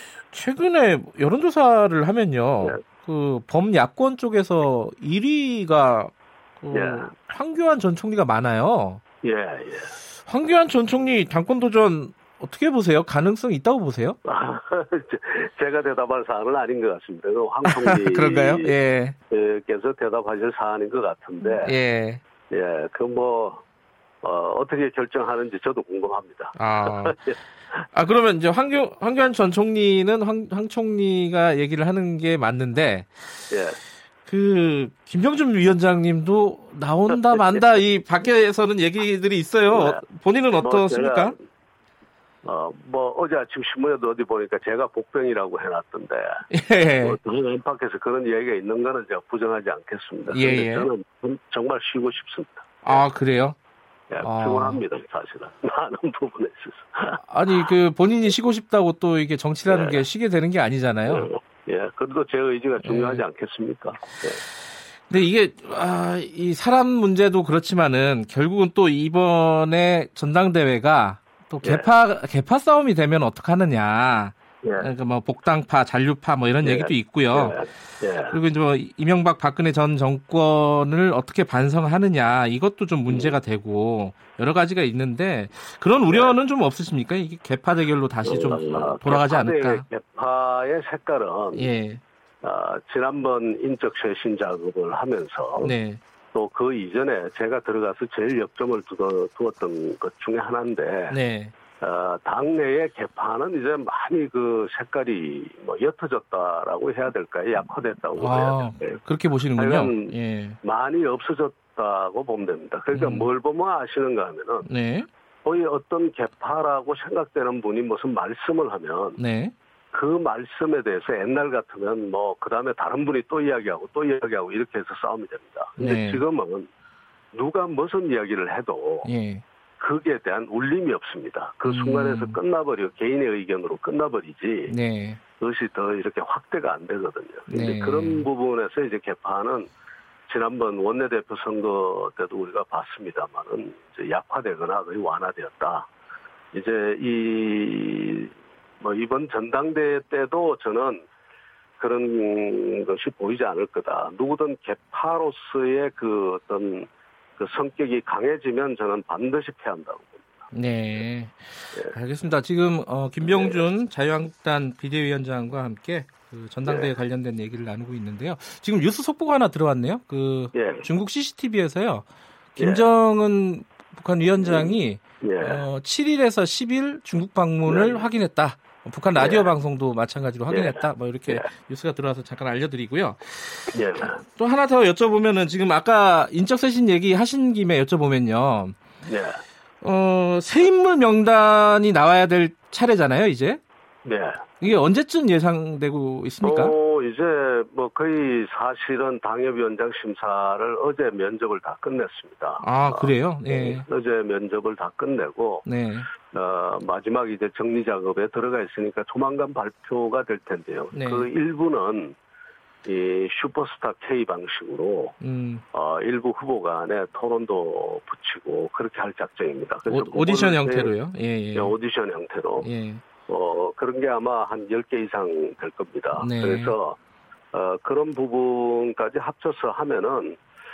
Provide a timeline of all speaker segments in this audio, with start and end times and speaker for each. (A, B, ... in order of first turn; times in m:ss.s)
0:00.3-0:09.0 A
0:06.7-0:07.1 B
0:09.2-0:10.0 B
0:10.3-0:14.2 A
0:14.2-0:18.7 B
0:17.7-0:19.1 A
0:19.3-0:21.8 B
0:21.4-0:22.2 A
0:22.5-0:23.6 B
0:24.2-0:27.4 B
0:26.6-0:27.2 A
0:27.9-0:33.1 A
0:33.5-0:33.8 B
0:34.2-0:41.3 A
0:37.3-0:37.6 B
0:39.7-0:40.0 B
0:40.6-0:41.3 B
0:42.4-0:46.4 B
0:46.5-0:47.2 A
0:47.0-0:53.0 B
0:50.3-0:50.9 A
0:52.8-0:53.6 A
0:54.1-0:57.2 B
0:54.2-0:54.8 A
0:57.2-1:01.2 A
0:59.7-1:00.0 B
1:01.0-1:04.4 B
1:02.8-1:03.2 A
1:05.1-1:17.6 A
1:11.6-1:11.9 B
1:14.6-1:14.9 B
1:16.6-1:18.4 B
1:18.3-1:29.8 A
1:23.1-1:23.4 B
1:26.1-1:26.4 B
1:28.2-1:31.7 B
1:31.5-1:32.0 A
1:32.4-1:35.8 B
1:35.6-1:36.0 A
1:36.3-1:41.2 B
1:41.1-1:41.5 A
1:41.8-1:49.0 B
1:48.2-1:50.6 A
1:49.6-1:54.6 B
1:52.9-1:53.3 A
1:54.6-1:55.1 A
1:55.4-1:59.2 B
1:59.2-1:59.5 A
1:59.9-2:06.7 B
2:05.8-2:06.2 A
2:07.3-2:09.1 B
2:09.0-2:09.4 A
2:09.8-2:14.7 B
2:11.6-2:12.4 A
2:14.7-2:15.2 A
2:15.4-2:19.7 B
2:17.5-2:18.2 A
2:20.3-2:25.9 B
2:26.5-2:31.0 B
2:31.8-2:40.4 B
2:40.5-2:41.4 A
2:41.9-3:03.2 A
2:43.2-2:43.6 B
2:46.6-2:46.9 B
2:50.5-2:50.9 B
2:52.6-2:52.9 B
2:54.4-2:55.6 B
2:57.6-2:58.1 B
2:59.1-2:59.5 B
3:00.5-3:01.5 B
3:03.7-3:04.2 B
3:04.2-3:08.8 A
3:09.0-3:09.4 B
3:09.8-3:13.6 A
3:14.0-3:14.4 B
3:14.6-3:16.7 A
3:16.4-3:25.6 B
3:22.6-3:23.8 A
3:25.6-3:26.1 A
3:26.3-3:32.2 B
3:30.9-3:31.3 A
3:32.8-3:35.2 B
3:35.2-3:35.6 A
3:35.7-3:40.9 B
3:39.8-3:41.8 A
3:41.5-3:42.7 B
3:42.6-3:43.0 A
3:43.3-3:47.0 B
3:46.2-3:46.7 A
3:47.5-3:50.4 B